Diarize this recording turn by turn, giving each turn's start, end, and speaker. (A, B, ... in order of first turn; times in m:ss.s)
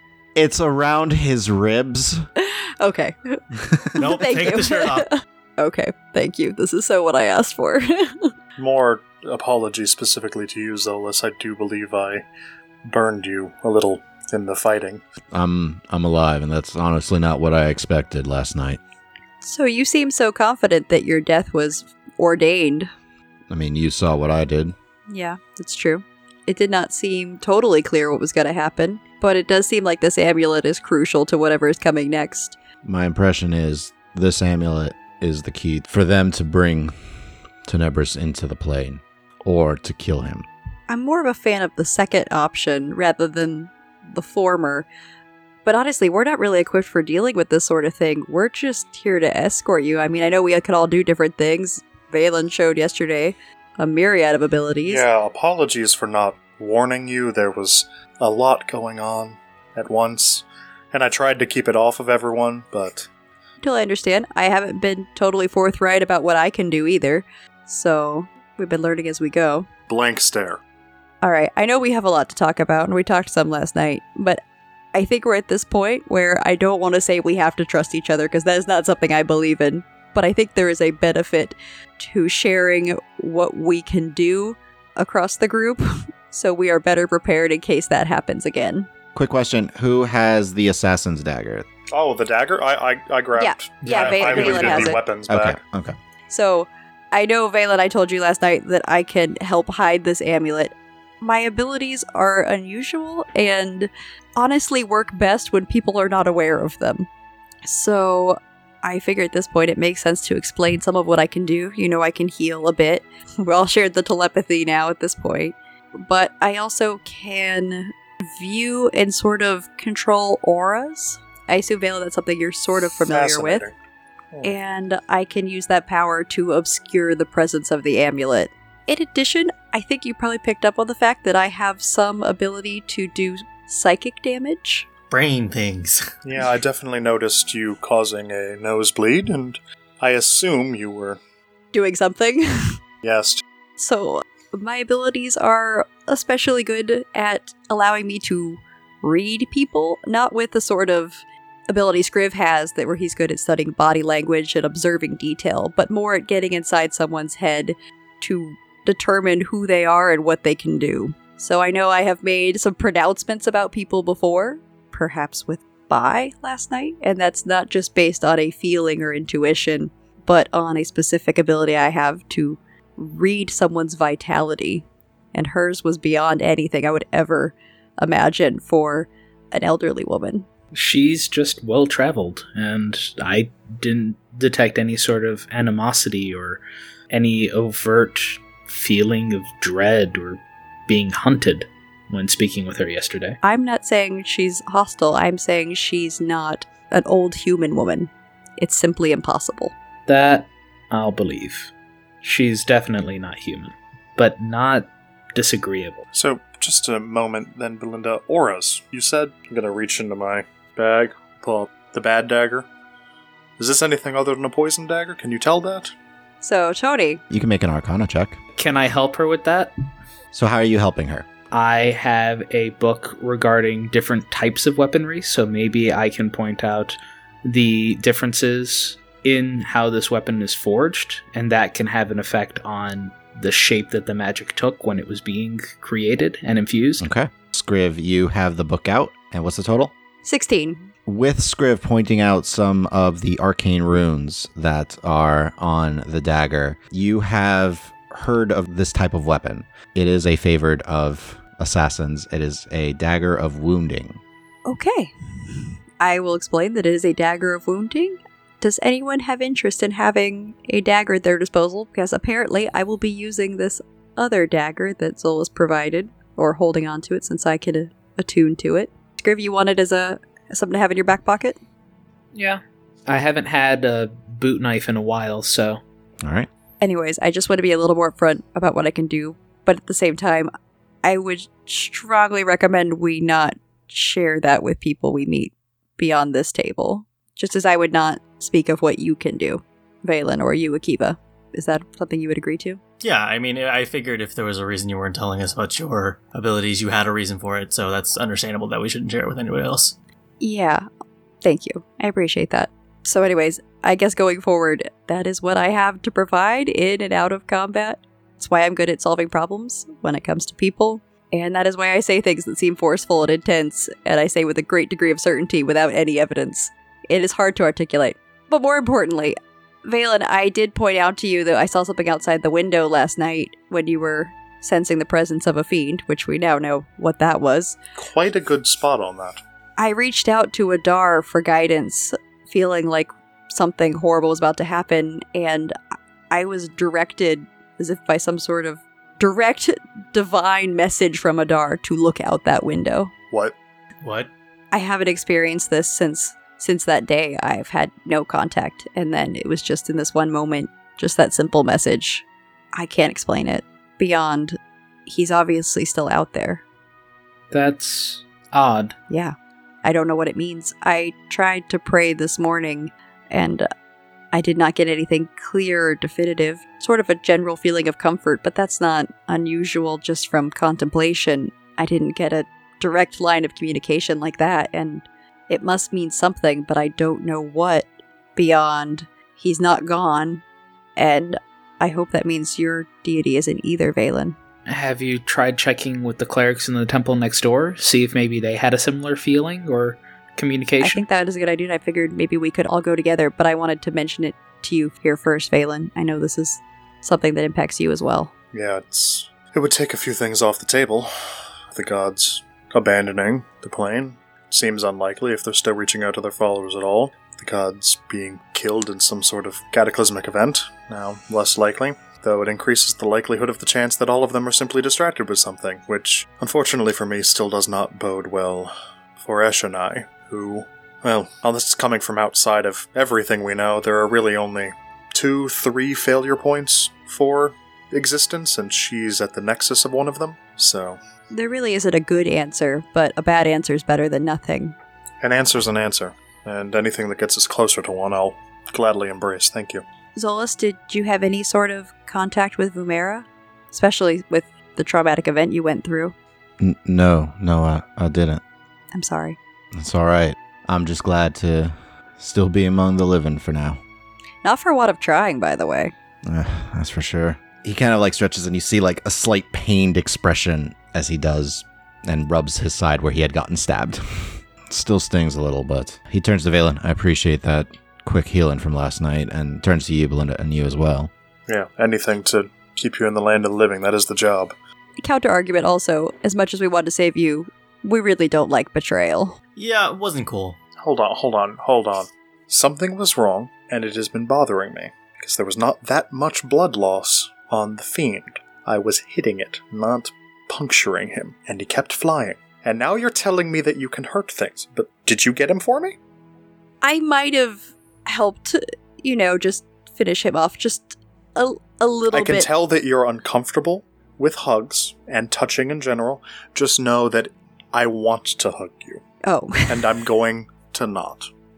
0:00.4-0:02.2 A
0:02.4-0:03.4 B
0:03.9-0:08.3 B
0:04.0-0:05.1 C
0:08.6-0:12.2 D
0:12.8-0:15.0 D
0:15.3-0:18.8 A
0:19.4-0:22.9 B
0:23.5-0:24.7 A
0:25.1-0:32.6 B
0:32.8-0:36.9 A
0:37.6-0:40.5 A
0:40.9-0:44.9 B
0:45.6-0:55.0 B
0:54.8-1:03.1 D
1:03.6-1:09.7 B
1:09.9-1:10.6 D
1:11.2-1:14.4 B
1:14.9-1:28.9 B
1:29.1-1:31.6 A
1:31.9-1:35.6 D
1:33.4-1:35.0 B
1:33.8-1:34.9 C
1:35.3-1:36.0 A
1:36.3-1:47.1 B
1:47.6-2:03.6 B
2:03.1-2:03.7 D
2:04.4-2:14.8 B
2:15.1-2:16.1 C
2:16.2-2:21.2 D
2:21.7-2:22.8 B
2:23.0-2:23.4 D
2:23.8-3:00.5 B
3:00.7-3:13.4 E
3:13.4-3:19.7 B
3:20.1-3:21.7 E
3:22.2-3:26.0 E
3:26.1-3:32.7 D
3:33.6-3:35.9 D
3:36.4-3:37.2 B
3:37.3-3:38.4 A
3:38.6-3:39.7 E
3:40.3-3:41.2 A
3:41.5-3:57.0 E
3:57.0-3:59.9 A
4:00.2-4:00.9 B
4:01.1-4:14.2 A
4:14.6-4:31.6 B
4:32.3-4:35.8 E
4:36.2-4:36.5 A
4:36.8-4:40.5 B
4:41.0-4:52.8 B
4:53.0-5:00.0 C
5:00.4-5:00.8 B
5:01.4-5:27.8 B
5:28.0-5:29.4 D
5:29.8-5:35.7 B
5:36.3-5:43.1 B
5:44.0-5:44.3 C
5:44.7-5:56.6 B
5:57.5-5:58.9 E
5:59.1-6:03.7 B
6:04.3-6:20.4 B
6:21.0-6:24.4 B
6:24.6-6:31.0 E
6:30.8-6:38.3 B
6:38.5-6:41.1 D
6:41.7-7:11.0 D
7:11.3-7:14.8 B
7:15.2-7:19.8 D
7:20.1-7:26.1 B
7:26.6-7:28.4 A
7:28.9-7:29.4 B
7:29.7-7:33.8 A
7:34.4-7:35.9 B
7:36.2-7:51.1 A
7:51.5-7:54.5 D
7:55.0-7:59.4 B
7:59.6-8:00.6 C
8:00.8-8:16.0 D
8:16.8-8:22.5 B
8:22.1-8:29.0 D
8:29.2-8:29.9 B
8:29.7-8:31.3 D